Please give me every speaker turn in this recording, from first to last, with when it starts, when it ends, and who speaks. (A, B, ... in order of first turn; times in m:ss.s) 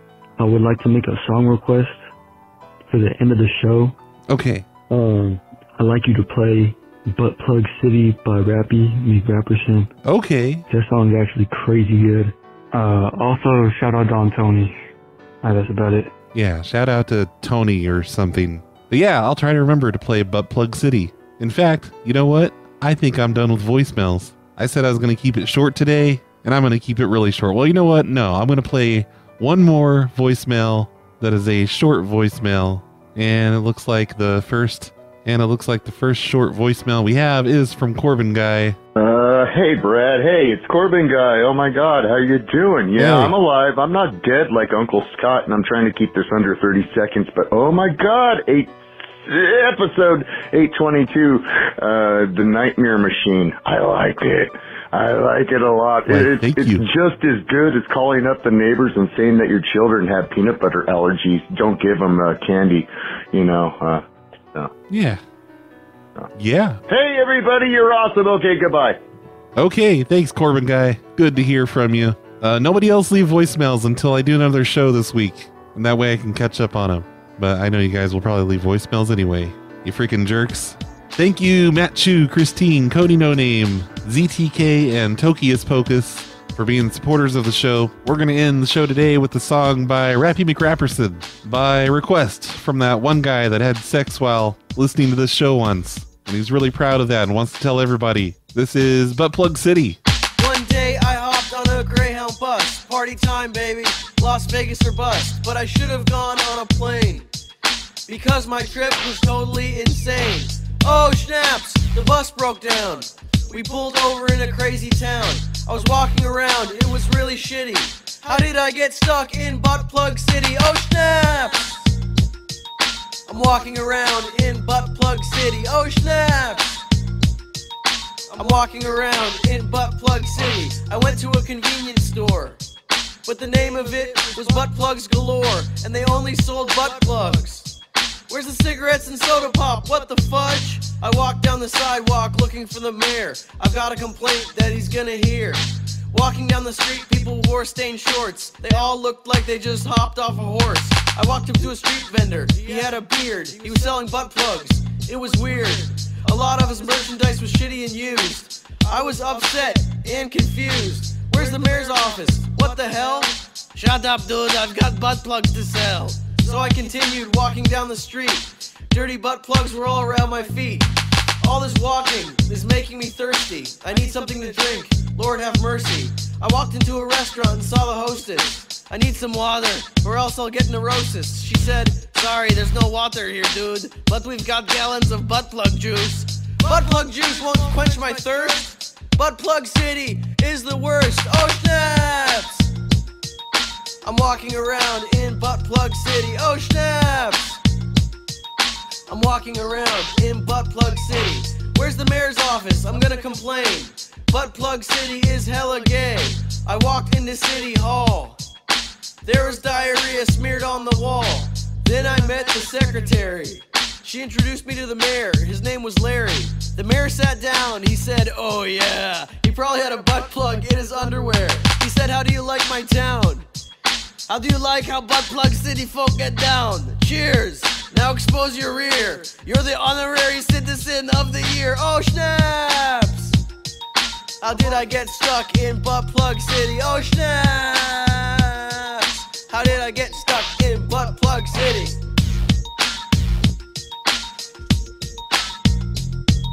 0:00.4-0:02.0 A
0:02.9-0:03.9 A
0:04.3-0:04.6 B
0:04.9-0:09.9 A
0:10.0-0:10.6 B
0:10.7-0:14.7 A
0:15.4-0:16.1 A
0:16.3-0:38.8 B
0:39.0-1:04.0 C
0:43.0-0:43.3 B
0:56.1-0:56.9 B
1:04.9-1:05.2 B
1:06.4-1:06.8 B
1:06.9-1:09.0 C
1:09.6-1:40.0 B
1:40.4-1:47.3 D
1:48.1-2:01.9 D
2:03.3-2:06.8 D
2:08.3-2:12.6 D
2:13.2-2:17.7 D
2:18.3-3:12.7 D
3:14.0-3:17.6 D
3:19.1-3:28.4 D
3:29.2-3:43.4 D
3:44.3-3:53.4 D
3:54.4-4:02.0 D